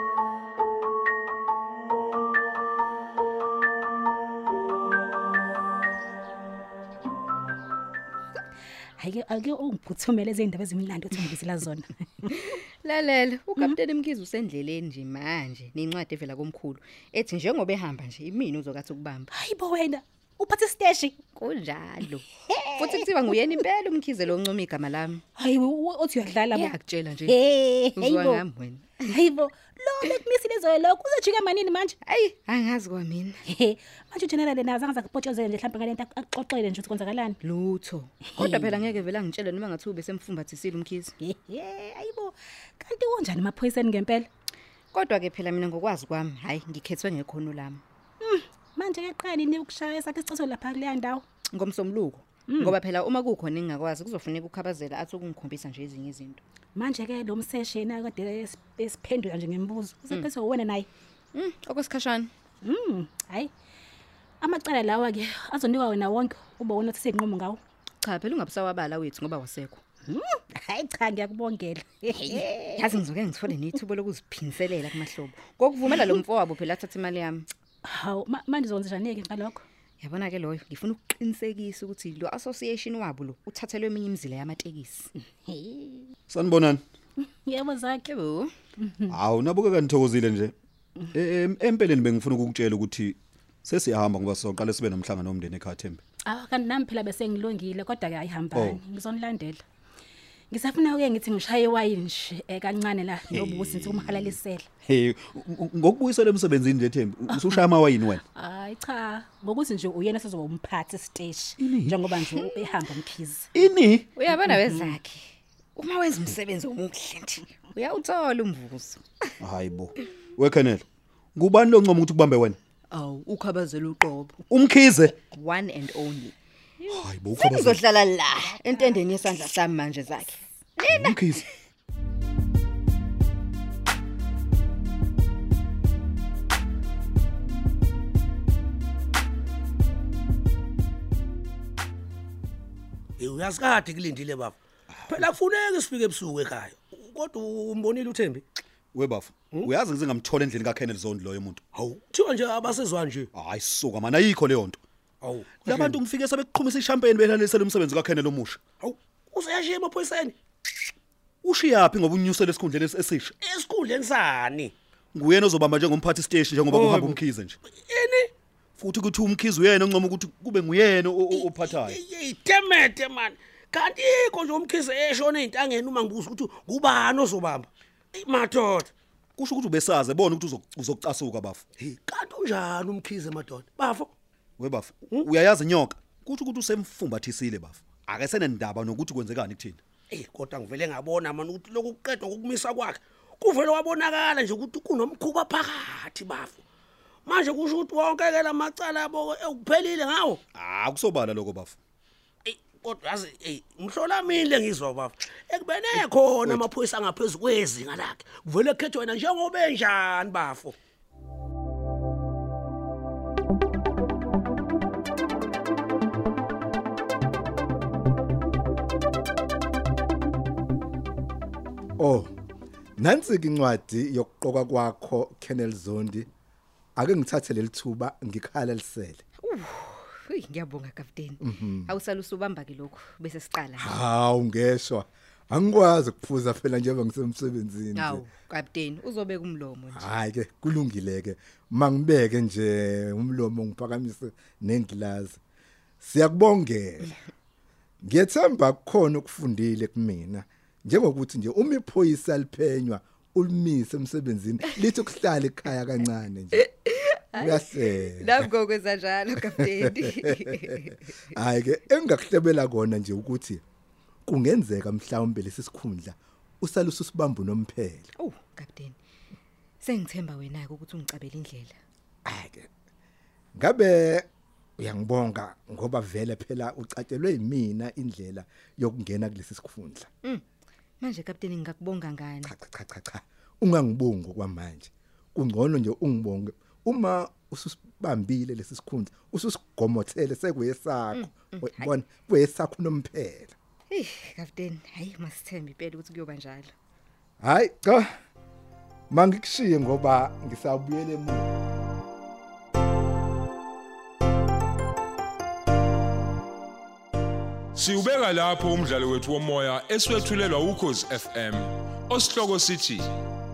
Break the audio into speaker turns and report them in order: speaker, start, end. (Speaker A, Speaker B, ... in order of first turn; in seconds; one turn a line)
Speaker A: 9.0-12.3
Speaker B: 12.4-19.3
Speaker A: 19.3-21.1
Speaker B: 21.3-25.2
Speaker A: 22.5-23.3
Speaker A: 25.4-28.4
Speaker B: 26.5-27.4
Speaker B: 27.9-29.1
Speaker A: 29.1-31.9
Speaker B: 32.0-33.4
Speaker A: 33.5-37.4
Speaker B: 37.4-41.1
Speaker A: 38.4-38.7
Speaker A: 41.2-44.3
Speaker B: 44.9-47.8
Speaker A: 48.2-51.2
Speaker B: 51.5-56.4
Speaker A: 52.5-52.7
Speaker A: 56.8-60.9
Speaker B: 61.3-62.3
Speaker A: 62.6-63.5
Speaker A: 64.4-67.6
Speaker B: 68.0-69.8
Speaker A: 70.1-72.9
Speaker B: 72.2-77.5
Speaker A: 75.9-76.2
Speaker A: 77.8-79.6
Speaker B: 80.0-85.1
Speaker A: 85.5-86.1
Speaker C: 86.3-86.8
Speaker A: 87.4-88.0
Speaker B: 88.0-88.5
Speaker A: 88.8-89.2
Speaker C: 89.1-90.5
Speaker C: 91.1-96.0
Speaker A: 96.2-99.6
Speaker C: 98.5-98.8
Speaker A: 100.5-104.7
Speaker C: 103.3-108.2
Speaker A: 108.3-113.5
Speaker C: 111.6-112.0
Speaker C: 113.5-114.1
Speaker B: 114.2-119.0
Speaker A: 114.3-114.9
Speaker C: 119.4-120.8
Speaker C: 121.3-122.6
Speaker B: 122.9-124.4
Speaker C: 124.5-125.2
Speaker B: 125.3-131.4
Speaker C: 126.9-127.8
Speaker A: 128.6-129.0
Speaker C: 130.9-131.4
Speaker D: 143.2-148.4
Speaker C: 148.9-151.6
Speaker D: 151.7-153.3
Speaker C: 153.3-154.8
Speaker D: 155.2-156.0
Speaker C: 155.6-158.6
Speaker D: 158.8-160.3
Speaker C: 161.4-163.3
Speaker D: 163.4-164.7
Speaker C: 165.1-167.6
Speaker D: 166.7-168.3
Speaker C: 168.8-172.0
Speaker D: 171.3-178.9
Speaker C: 179.4-181.6
Speaker D: 181.8-184.1
Speaker C: 184.6-189.8
Speaker D: 190.1-196.6
Speaker D: 197.2-200.4
Speaker C: 200.5-201.8
Speaker D: 202.4-210.8
Speaker E: 222.0-222.3
Speaker E: 223.0-226.3
Speaker E: 226.9-229.2
Speaker B: 229.4-234.0
Speaker E: 231.4-231.9
Speaker E: 233.8-238.2
Speaker B: 237.9-240.1
Speaker E: 239.9-245.4
Speaker E: 246.0-247.1
Speaker E: 248.0-256.7
Speaker B: 256.5-261.0
Speaker E: 257.4-258.5
Speaker E: 260.0-260.7
Speaker E: 261.3-263.6
Speaker E: 264.2-268.1
Speaker B: 268.2-269.0
Speaker B: 269.8-271.8
Speaker E: 272.2-272.7
Speaker E: 273.6-274.2
Speaker E: 274.8-280.1
Speaker B: 281.0-282.5
Speaker E: 282.4-293.5
Speaker B: 291.1-291.9
Speaker B: 293.9-296.7
Speaker E: 297.4-298.1
Speaker E: 299.1-301.5
Speaker F: 307.8-313.1